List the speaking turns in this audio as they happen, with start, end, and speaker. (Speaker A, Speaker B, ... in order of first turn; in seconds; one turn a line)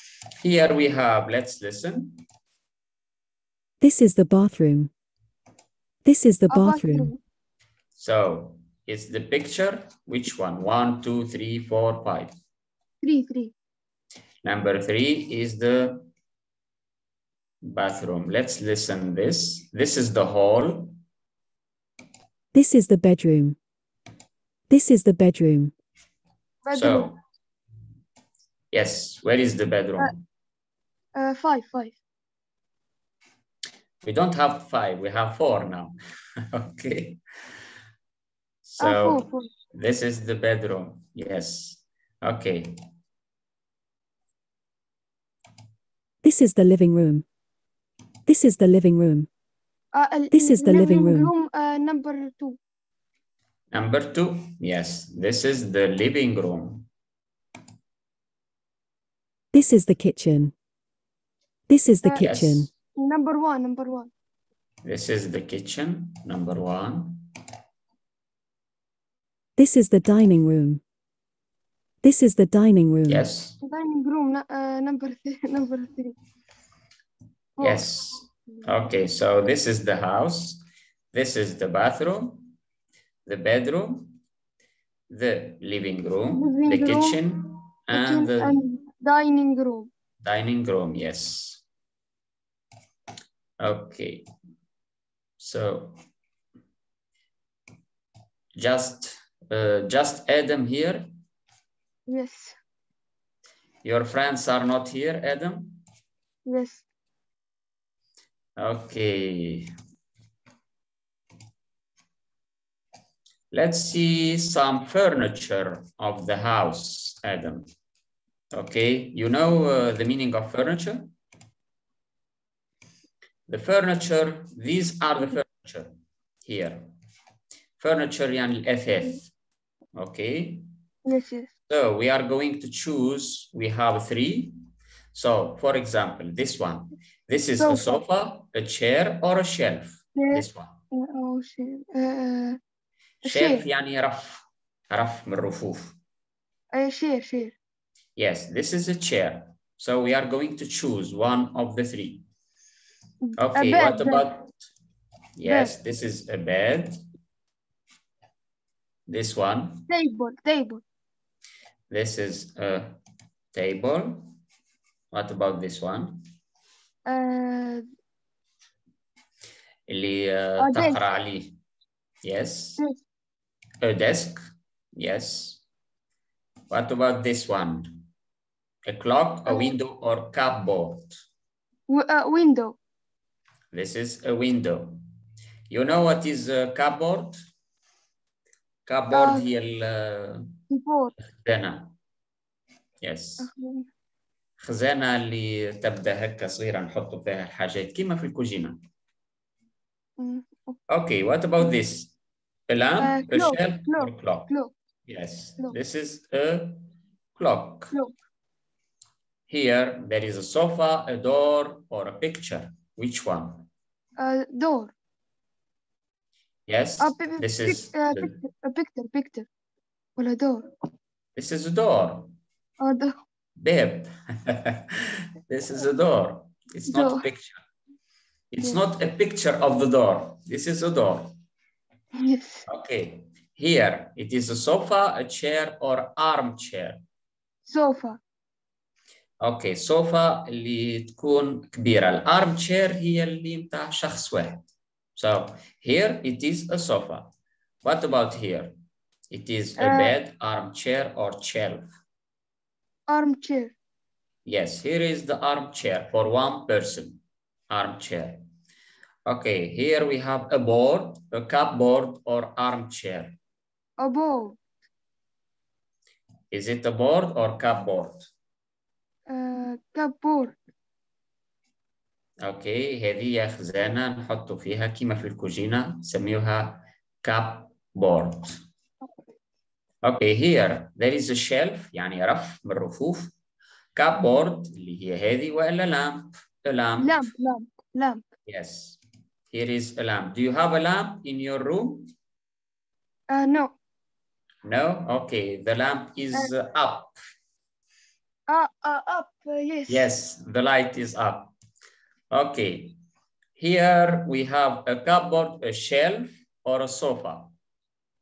Speaker A: 0.4-2.2
Speaker B: 3.8-4.9
Speaker B: 6.0-7.1
Speaker C: 6.5-7.2
Speaker A: 8.0-12.3
Speaker C: 13.0-13.5
Speaker A: 14.4-16.1
Speaker A: 17.6-21.0
Speaker B: 22.5-23.6
Speaker B: 24.7-25.7
Speaker C: 26.6-27.1
Speaker A: 26.7-27.1
Speaker A: 28.7-30.1
Speaker C: 31.1-31.9
Speaker A: 34.0-36.0
Speaker A: 36.5-37.2
Speaker A: 38.6-42.8
Speaker C: 38.8-39.5
Speaker B: 46.2-47.2
Speaker B: 48.2-49.3
Speaker C: 49.9-52.6
Speaker B: 50.3-51.3
Speaker A: 53.7-56.9
Speaker B: 59.5-60.5
Speaker B: 61.7-62.7
Speaker A: 62.2-62.7
Speaker C: 62.9-64.1
Speaker A: 64.8-67.3
Speaker B: 69.6-70.8
Speaker B: 72.0-73.2
Speaker A: 73.1-73.6
Speaker C: 73.6-76.1
Speaker C: 77.6-77.8
Speaker A: 77.6-82.5
Speaker A: 83.2-84.1
Speaker A: 85.1-88.6
Speaker C: 86.4-87.2
Speaker C: 87.9-89.9
Speaker A: 90.2-91.6
Speaker A: 93.6-94.2
Speaker A: 95.4-96.0
Speaker A: 98.5-101.1
Speaker C: 102.1-102.5
Speaker A: 103.8-105.8
Speaker C: 106.5-106.8
Speaker A: 108.6-109.7
Speaker A: 113.5-117.7
Speaker A: 118.5-121.1
Speaker A: 123.5-126.9
Speaker A: 127.8-129.3
Speaker A: 129.9-130.6
Speaker C: 131.1-131.5
Speaker A: 131.7-134.5
Speaker A: 135.1-140.8
Speaker C: 137.6-138.0
Speaker C: 140.2-142.6
Speaker C: 143.2-143.6
Speaker A: 143.2-146.0
Speaker C: 146.7-147.5
Speaker A: 148.2-152.2
Speaker C: 153.2-154.3
Speaker A: 153.4-154.5
Speaker A: 155.4-157.0
Speaker C: 155.4-155.7
Speaker A: 159.1-159.8
Speaker C: 159.9-160.8
Speaker A: 161.9-163.0
Speaker A: 163.5-164.3
Speaker A: 165.1-166.2
Speaker C: 167.1-167.8
Speaker A: 169.9-171.6
Speaker C: 170.6-171.0
Speaker A: 172.2-172.8
Speaker A: 173.8-174.4
Speaker A: 174.9-175.6
Speaker A: 176.7-177.9
Speaker A: 178.8-181.2
Speaker C: 179.5-179.7
Speaker C: 181.9-182.8
Speaker A: 183.7-185.0
Speaker A: 185.7-187.4
Speaker A: 188.9-190.5
Speaker C: 189.1-189.4
Speaker C: 190.7-191.1
Speaker A: 191.4-191.9
Speaker A: 193.0-193.5
Speaker C: 193.4-193.9
Speaker A: 194.6-198.8
Speaker C: 200.2-200.8
Speaker A: 200.9-202.1
Speaker A: 202.7-204.5
Speaker C: 203.0-204.7
Speaker A: 205.1-207.9
Speaker A: 209.5-213.7
Speaker C: 214.2-214.9
Speaker A: 216.7-218.3
Speaker C: 217.0-219.5
Speaker C: 220.2-220.7
Speaker A: 221.3-222.3
Speaker C: 222.8-223.2
Speaker A: 223.6-227.6
Speaker C: 226.9-227.2
Speaker A: 228.5-231.3
Speaker C: 232.2-232.6
Speaker A: 232.7-237.0
Speaker C: 237.7-238.2
Speaker A: 239.4-244.6
Speaker A: 245.2-247.3
Speaker A: 247.8-248.8
Speaker A: 249.3-251.9
Speaker C: 249.8-250.1
Speaker C: 253.1-253.7
Speaker A: 254.4-258.4
Speaker A: 259.2-263.4
Speaker C: 264.0-264.6
Speaker A: 266.5-268.3
Speaker C: 269.3-270.5
Speaker A: 272.4-278.6
Speaker A: 280.0-283.3
Speaker A: 283.9-287.2
Speaker C: 287.0-288.2
Speaker A: 288.5-289.0
Speaker A: 289.5-292.1
Speaker C: 293.3-293.7
Speaker A: 294.6-297.2
Speaker C: 298.5-300.1
Speaker A: 299.9-301.5
Speaker A: 302.3-303.0
Speaker A: 303.6-307.5